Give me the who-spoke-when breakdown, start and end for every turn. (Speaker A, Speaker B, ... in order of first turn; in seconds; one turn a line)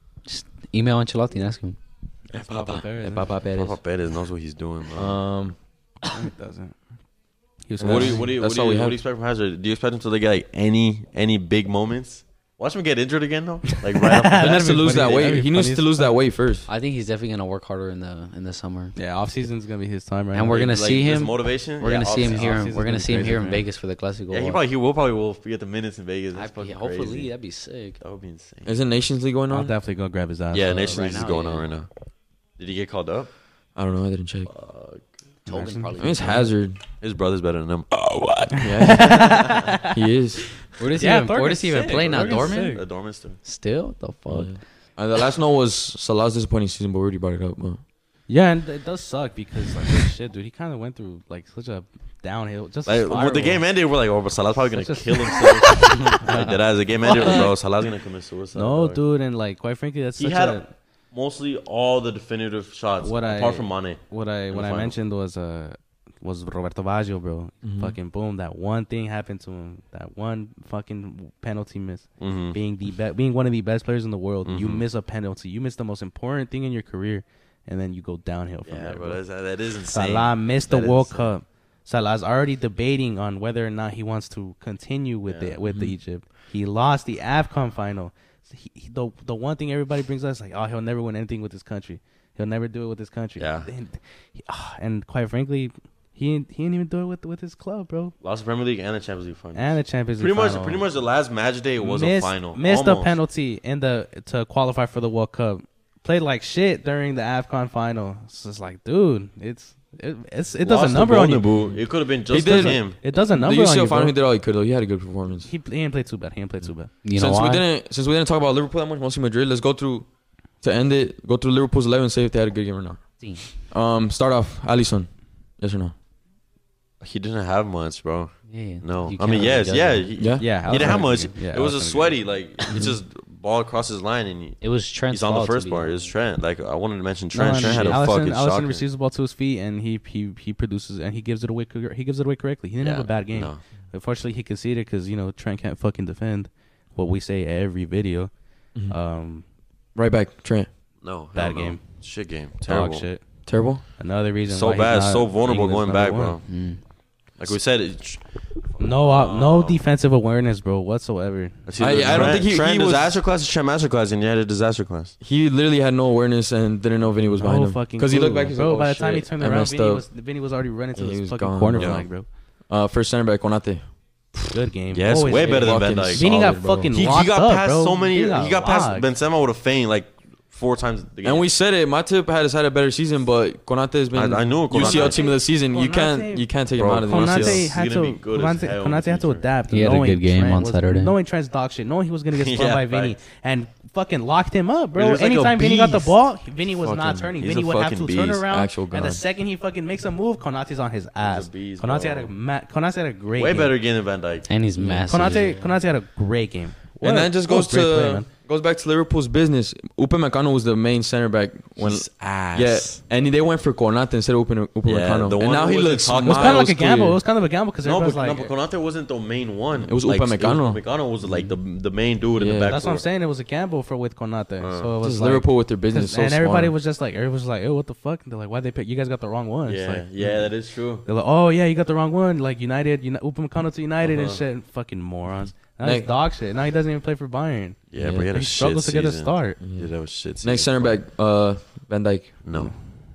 Speaker A: 0.2-1.8
Speaker B: 2.3-3.3
Speaker C: 2.4-3.8
Speaker D: 3.5-5.2
Speaker C: 5.0-5.6
Speaker B: 6.1-6.8
Speaker B: 7.7-8.3
Speaker C: 7.8-9.0
Speaker D: 7.8-14.7
Speaker B: 13.9-16.2
Speaker C: 14.3-16.7
Speaker A: 16.7-19.0
Speaker B: 19.0-20.6
Speaker A: 20.3-24.6
Speaker D: 20.5-22.8
Speaker B: 22.1-23.6
Speaker D: 24.3-27.3
Speaker A: 26.3-28.0
Speaker D: 28.0-28.8
Speaker C: 28.6-29.7
Speaker B: 29.5-31.2
Speaker D: 30.5-31.9
Speaker A: 30.9-31.7
Speaker D: 32.6-33.3
Speaker C: 33.8-34.5
Speaker D: 34.5-35.1
Speaker A: 35.5-36.5
Speaker B: 35.5-36.0
Speaker C: 36.0-36.8
Speaker D: 37.0-38.5
Speaker C: 38.5-40.7
Speaker B: 38.6-39.8
Speaker A: 40.8-44.6
Speaker B: 41.0-42.8
Speaker D: 41.8-43.4
Speaker C: 44.3-47.8
Speaker B: 48.3-53.7
Speaker D: 52.9-59.0
Speaker B: 54.7-57.5
Speaker B: 58.5-60.7
Speaker D: 60.2-65.0
Speaker B: 63.0-79.2
Speaker C: 67.6-68.0
Speaker D: 72.2-72.6
Speaker D: 74.5-74.8
Speaker D: 78.7-81.3
Speaker B: 79.9-98.2
Speaker D: 85.3-85.6
Speaker C: 85.7-86.0
Speaker D: 93.4-93.7
Speaker D: 98.2-103.2
Speaker B: 99.5-100.9
Speaker B: 101.8-111.6
Speaker D: 110.6-113.0
Speaker C: 112.3-115.5
Speaker B: 112.3-114.2
Speaker B: 115.4-116.9
Speaker A: 117.0-117.7
Speaker C: 117.1-120.1
Speaker C: 120.6-125.9
Speaker D: 127.0-138.8
Speaker A: 128.5-131.2
Speaker C: 130.2-131.0
Speaker B: 130.4-132.8
Speaker A: 134.6-136.1
Speaker B: 137.3-149.5
Speaker C: 137.5-138.0
Speaker D: 142.8-143.6
Speaker C: 149.9-150.8
Speaker D: 151.0-153.1
Speaker B: 151.3-151.9
Speaker B: 152.7-156.4
Speaker C: 153.4-153.8
Speaker D: 154.5-159.8
Speaker A: 156.5-156.8
Speaker B: 158.8-162.4
Speaker D: 161.7-165.2
Speaker C: 161.8-163.2
Speaker C: 165.2-170.1
Speaker B: 167.3-172.3
Speaker C: 170.9-174.3
Speaker D: 171.8-172.1
Speaker B: 174.5-179.1
Speaker D: 174.9-181.5
Speaker C: 175.3-177.0
Speaker C: 181.2-187.7
Speaker D: 184.1-185.3
Speaker B: 184.7-203.8
Speaker D: 186.7-189.5
Speaker A: 189.7-191.2
Speaker D: 192.3-193.2
Speaker D: 194.9-196.2
Speaker C: 196.8-197.4
Speaker D: 197.4-198.5
Speaker C: 198.5-199.2
Speaker D: 201.2-202.3
Speaker D: 203.4-204.5
Speaker A: 204.5-205.8
Speaker C: 204.8-205.3
Speaker B: 205.1-208.3
Speaker C: 207.0-217.2
Speaker D: 211.8-213.0
Speaker D: 214.8-216.8
Speaker B: 216.2-218.5
Speaker D: 217.8-223.1
Speaker C: 219.8-220.8
Speaker A: 221.2-221.6
Speaker C: 222.4-222.8
Speaker B: 222.7-230.5
Speaker D: 224.6-224.9
Speaker C: 225.0-226.8
Speaker D: 229.7-231.1
Speaker B: 231.1-239.6
Speaker D: 234.0-234.4
Speaker C: 235.8-236.1
Speaker D: 237.9-241.0
Speaker C: 238.0-238.3
Speaker C: 239.6-242.5
Speaker D: 242.4-242.8
Speaker B: 242.6-242.9